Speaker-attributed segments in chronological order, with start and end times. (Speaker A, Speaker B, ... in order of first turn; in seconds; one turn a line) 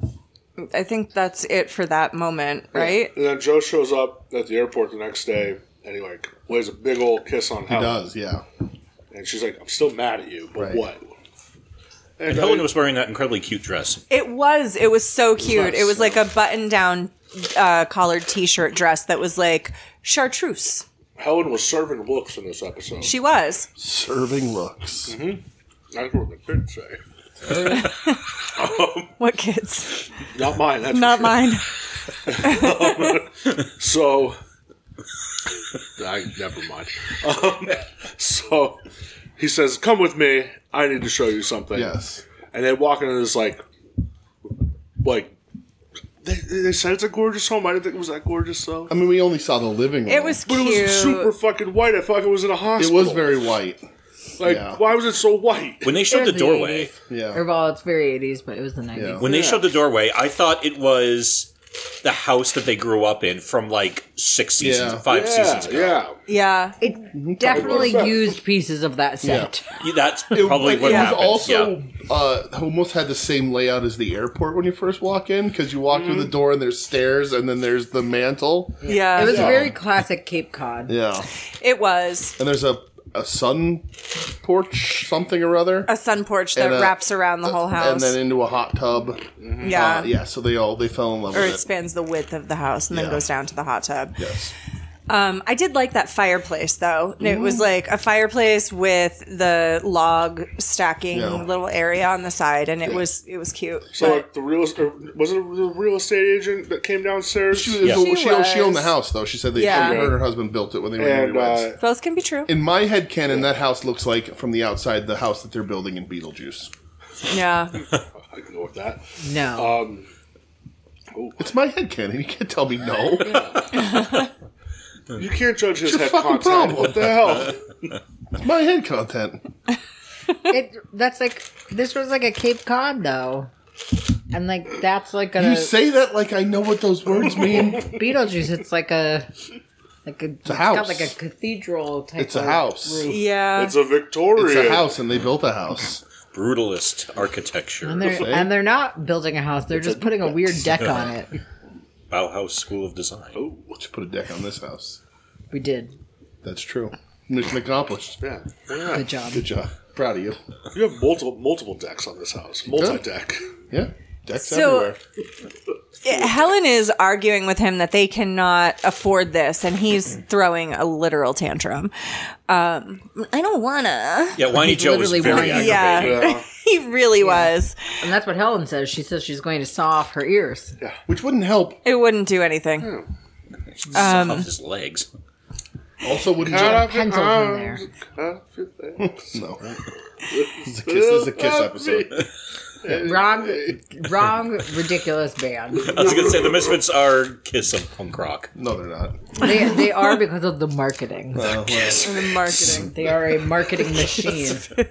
Speaker A: 0.6-3.1
Speaker B: 3.1-8.0
Speaker C: 7.7-8.4
Speaker B: 9.1-11.1
Speaker C: 10.6-10.8
Speaker B: 12.2-12.7
Speaker D: 12.2-14.0
Speaker A: 14.1-20.8
Speaker B: 15.4-16.2
Speaker B: 21.2-23.1
Speaker A: 23.0-23.7
Speaker C: 23.8-25.2
Speaker B: 25.1-25.4
Speaker B: 25.9-27.0
Speaker C: 27.4-27.9
Speaker A: 27.6-28.2
Speaker B: 28.5-29.1
Speaker A: 29.2-30.1
Speaker B: 30.3-31.6
Speaker A: 30.9-31.7
Speaker B: 32.2-34.4
Speaker A: 32.4-33.2
Speaker B: 36.0-38.8
Speaker B: 39.4-41.9
Speaker C: 41.7-42.2
Speaker B: 42.5-43.6
Speaker B: 45.0-45.3
Speaker B: 46.2-48.9
Speaker C: 48.9-50.4
Speaker A: 50.1-51.3
Speaker B: 50.5-53.3
Speaker C: 52.8-53.9
Speaker B: 54.4-56.0
Speaker C: 54.4-54.8
Speaker D: 55.8-56.9
Speaker E: 56.1-59.2
Speaker C: 57.1-57.4
Speaker C: 58.9-59.2
Speaker D: 59.2-61.5
Speaker B: 59.2-59.6
Speaker D: 62.0-66.0
Speaker C: 64.6-65.0
Speaker B: 65.1-66.1
Speaker A: 66.3-66.8
Speaker E: 66.8-69.6
Speaker C: 67.1-68.1
Speaker B: 67.5-68.3
Speaker C: 69.2-69.5
Speaker D: 69.8-71.7
Speaker C: 70.3-79.7
Speaker A: 70.8-71.2
Speaker B: 75.9-76.3
Speaker A: 78.8-79.5
Speaker E: 78.8-80.9
Speaker B: 79.2-79.6
Speaker C: 80.9-81.3
Speaker A: 81.6-82.3
Speaker C: 82.4-85.9
Speaker A: 85.9-88.2
Speaker C: 86.5-91.6
Speaker B: 89.4-89.7
Speaker A: 89.6-90.1
Speaker A: 91.3-94.2
Speaker C: 92.9-93.2
Speaker C: 94.2-94.5
Speaker A: 95.1-104.2
Speaker C: 97.2-97.6
Speaker C: 101.1-101.5
Speaker B: 103.9-107.9
Speaker C: 107.5-111.7
Speaker A: 107.8-108.9
Speaker A: 109.5-110.0
Speaker B: 109.6-110.2
Speaker B: 111.0-111.8
Speaker A: 111.8-112.5
Speaker C: 112.5-116.7
Speaker A: 117.3-117.8
Speaker B: 118.3-120.1
Speaker E: 119.2-119.8
Speaker B: 121.1-121.4
Speaker C: 121.4-123.5
Speaker B: 123.2-124.0
Speaker A: 123.7-124.3
Speaker B: 125.1-127.6
Speaker C: 125.8-127.5
Speaker C: 128.3-129.4
Speaker E: 130.5-133.5
Speaker E: 134.3-135.7
Speaker C: 135.4-137.9
Speaker E: 137.8-139.3
Speaker E: 140.0-143.2
Speaker C: 140.4-141.1
Speaker C: 142.2-143.1
Speaker A: 143.0-143.8
Speaker B: 143.5-144.9
Speaker C: 144.3-146.0
Speaker D: 146.3-148.2
Speaker E: 147.8-151.4
Speaker C: 148.1-148.5
Speaker B: 149.8-150.3
Speaker D: 152.1-153.4
Speaker B: 153.3-153.8
Speaker C: 153.8-155.0
Speaker E: 155.5-155.9
Speaker C: 156.4-158.2
Speaker B: 158.2-159.0
Speaker E: 158.9-159.4
Speaker C: 159.3-160.4
Speaker B: 160.7-163.4
Speaker C: 162.7-163.0
Speaker C: 163.7-165.0
Speaker A: 164.4-164.9
Speaker A: 166.0-171.9
Speaker A: 172.5-174.4
Speaker D: 174.4-176.2
Speaker E: 174.4-176.0
Speaker A: 175.3-177.8
Speaker B: 175.9-176.4
Speaker E: 177.2-180.7
Speaker C: 181.1-181.8
Speaker A: 181.8-182.9
Speaker B: 182.8-183.1
Speaker D: 183.8-185.1
Speaker A: 183.9-184.5
Speaker C: 186.0-186.9
Speaker B: 186.4-189.4
Speaker E: 186.5-187.8
Speaker C: 189.0-189.8
Speaker B: 190.3-192.3
Speaker C: 190.6-192.2
Speaker B: 192.8-193.8
Speaker E: 192.9-196.0
Speaker B: 195.8-196.8
Speaker D: 195.8-198.5
Speaker C: 198.5-199.4
Speaker E: 199.4-201.5
Speaker C: 201.3-202.2
Speaker A: 201.9-202.9
Speaker E: 202.7-204.7